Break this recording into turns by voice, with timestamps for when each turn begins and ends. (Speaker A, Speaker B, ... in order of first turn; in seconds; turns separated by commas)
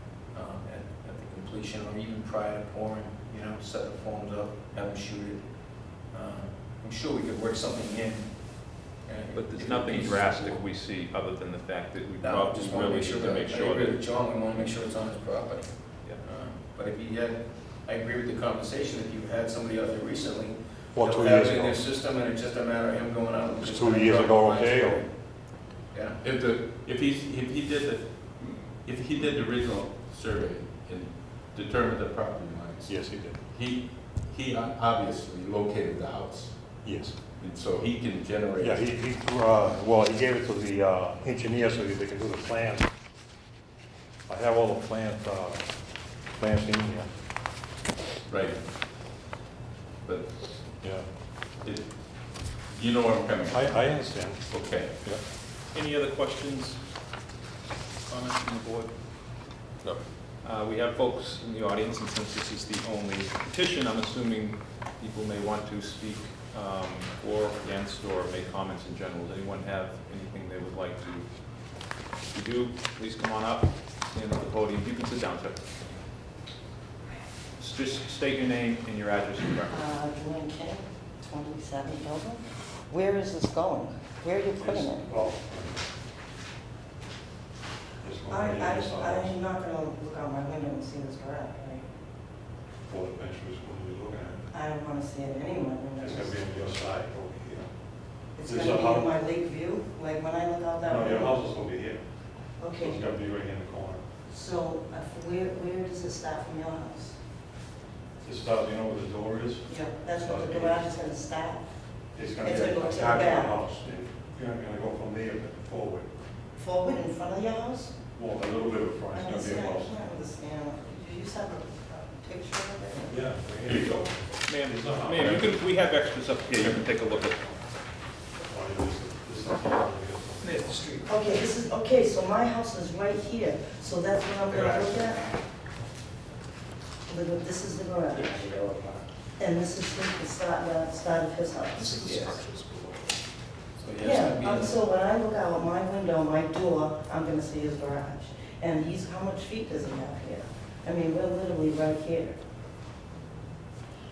Speaker A: 0.2-10.6, Speaker B: 9.3-14.0, Speaker A: 12.2-25.1, Speaker C: 20.9-21.8, Speaker C: 23.6-25.0, Speaker A: 25.9-26.2, Speaker D: 26.2-36.8, Speaker C: 32.9-33.4, Speaker C: 36.8-37.2, Speaker D: 37.4-38.9, Speaker C: 38.6-42.9, Speaker C: 44.3-45.7, Speaker C: 46.3-47.1, Speaker D: 48.3-48.6, Speaker D: 50.0-50.3, Speaker D: 51.6-51.9, Speaker D: 52.6-54.9, Speaker C: 53.5-54.5, Speaker B: 55.7-56.8, Speaker B: 58.1-58.9, Speaker B: 60.4-71.2, Speaker B: 72.3-75.6, Speaker B: 77.6-79.9, Speaker E: 79.7-85.1, Speaker C: 84.6-85.8, Speaker C: 88.0-89.3, Speaker E: 88.3-91.8, Speaker C: 92.9-94.5, Speaker E: 94.5-96.4, Speaker C: 96.0-97.7, Speaker E: 98.3-101.4, Speaker C: 98.4-99.1, Speaker C: 100.8-102.0, Speaker E: 102.6-103.0, Speaker C: 102.7-104.0, Speaker E: 104.3-107.2, Speaker C: 108.2-110.8, Speaker E: 109.7-111.7, Speaker C: 112.1-116.1, Speaker E: 112.4-113.6, Speaker E: 116.6-117.9, Speaker C: 118.1-120.0, Speaker E: 119.1-123.3, Speaker C: 123.1-125.6, Speaker B: 124.5-127.5, Speaker C: 128.4-130.9, Speaker B: 130.5-131.0, Speaker E: 131.0-135.3, Speaker E: 137.1-138.5, Speaker A: 138.4-139.0, Speaker E: 139.4-142.3, Speaker A: 142.0-142.4, Speaker C: 142.3-142.8, Speaker A: 143.8-144.8, Speaker E: 144.0-152.4